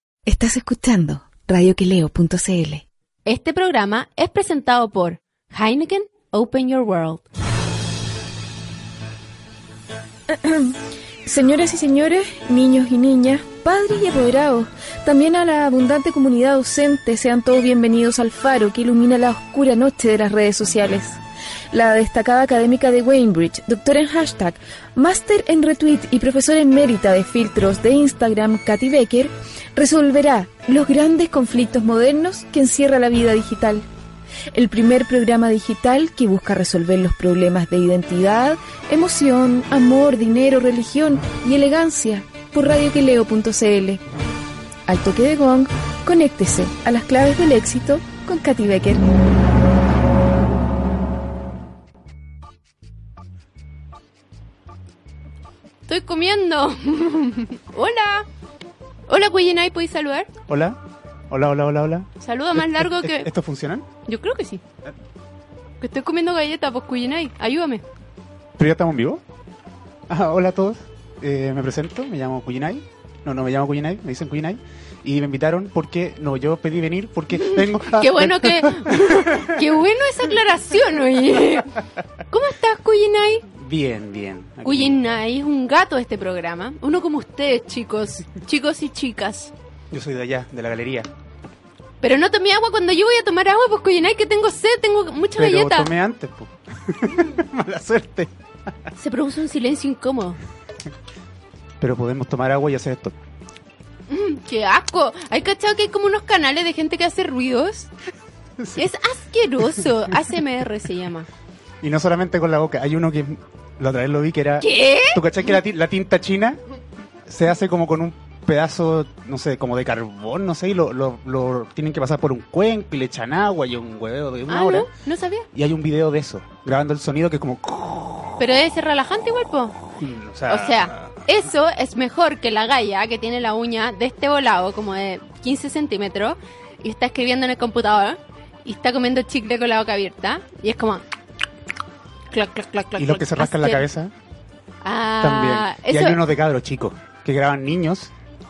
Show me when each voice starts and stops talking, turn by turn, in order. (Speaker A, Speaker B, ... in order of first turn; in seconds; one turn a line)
Speaker A: 0.3-2.9
Speaker B: 3.3-7.2
Speaker A: 10.3-21.2
Speaker A: 21.7-33.9
Speaker A: 34.5-44.0
Speaker A: 44.9-49.1
Speaker B: 55.9-58.3
Speaker B: 59.1-60.3
Speaker C: 60.5-60.8
Speaker C: 61.3-63.9
Speaker B: 62.2-63.3
Speaker B: 64.1-64.6
Speaker B: 65.8-67.8
Speaker C: 68.6-69.2
Speaker C: 70.1-79.7
Speaker B: 77.3-81.8
Speaker B: 82.3-83.5
Speaker C: 83.5-85.1
Speaker B: 84.6-89.5
Speaker C: 89.9-91.1
Speaker B: 92.0-95.9
Speaker C: 95.4-98.3
Speaker B: 99.0-100.4
Speaker C: 101.8-103.2
Speaker B: 104.1-107.9
Speaker B: 108.8-111.3
Speaker C: 111.8-116.6
Speaker B: 114.6-115.2
Speaker C: 117.3-124.9
Speaker B: 124.5-125.5
Speaker C: 125.5-128.5
Speaker B: 128.4-129.8
Speaker C: 129.9-131.2
Speaker B: 130.5-141.0
Speaker B: 142.3-143.9
Speaker C: 143.0-144.1
Speaker B: 144.8-146.2
Speaker C: 145.2-148.1